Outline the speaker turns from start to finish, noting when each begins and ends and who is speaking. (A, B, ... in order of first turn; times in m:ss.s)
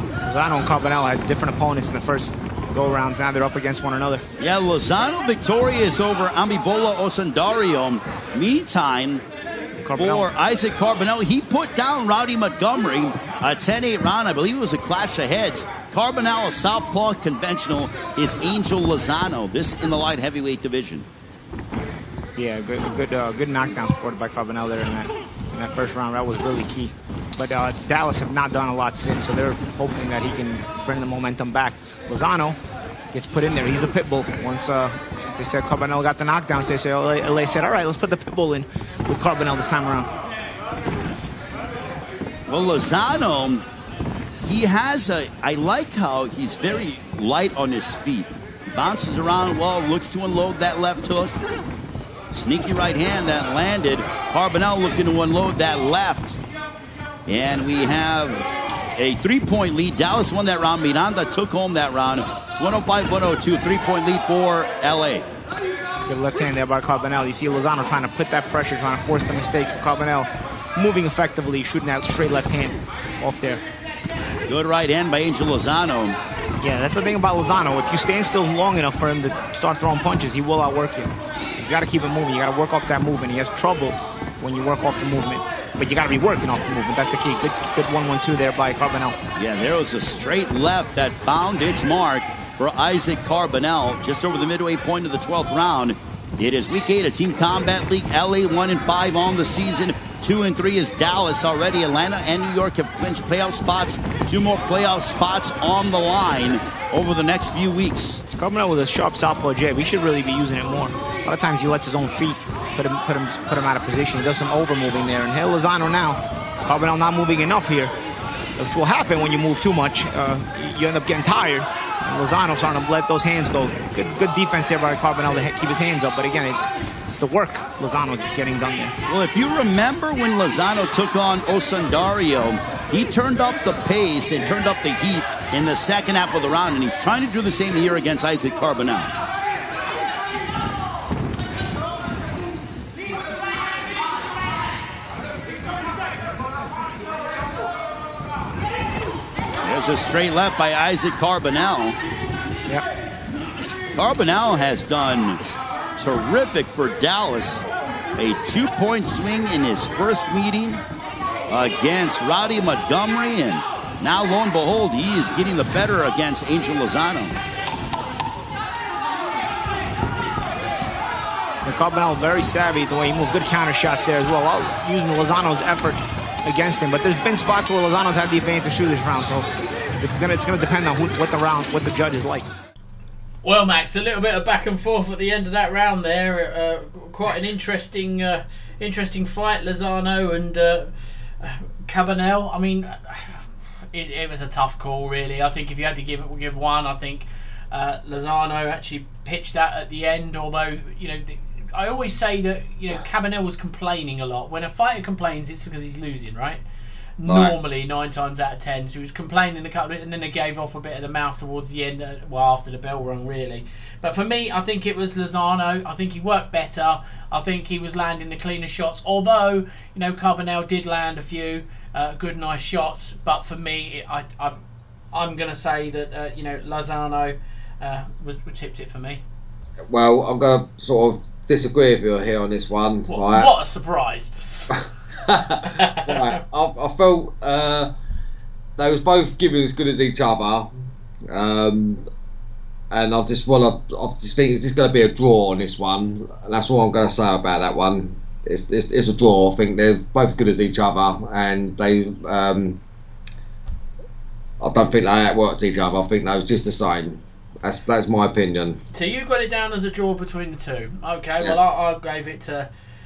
0:00.2-0:04.2 A
0:04.4-0:09.2 B
0:09.8-0:10.3 A
0:09.9-0:21.1 B
0:22.4-0:32.6 A
0:33.1-0:40.1 A
0:42.5-0:43.7 B
0:44.4-0:51.3 B
0:52.3-0:56.4 B
0:57.3-1:05.2 B
1:06.1-1:13.6 A
1:14.5-1:16.2 B
1:16.6-1:29.2 A
1:29.4-1:48.2 B
1:48.3-1:57.9 A
1:58.6-2:08.9 A
2:09.1-2:19.1 B
2:29.6-2:32.0 B
2:33.9-2:35.4 B
2:36.0-2:40.8 B
2:41.5-2:47.4 B
2:51.6-2:59.5 A
3:00.0-3:02.5 A
3:03.4-3:26.6 C
3:27.2-3:44.6 C
3:27.3-3:27.5 D
3:45.1-3:49.2 C
3:49.9-3:53.5 D
3:53.1-3:54.7 C
3:55.2-3:57.9 D
3:55.6-3:56.4 C
3:58.8-4:00.7 D
4:01.3-4:02.0 D
4:02.9-4:12.8 D
4:14.6-4:18.8 D
4:18.9-4:22.7 C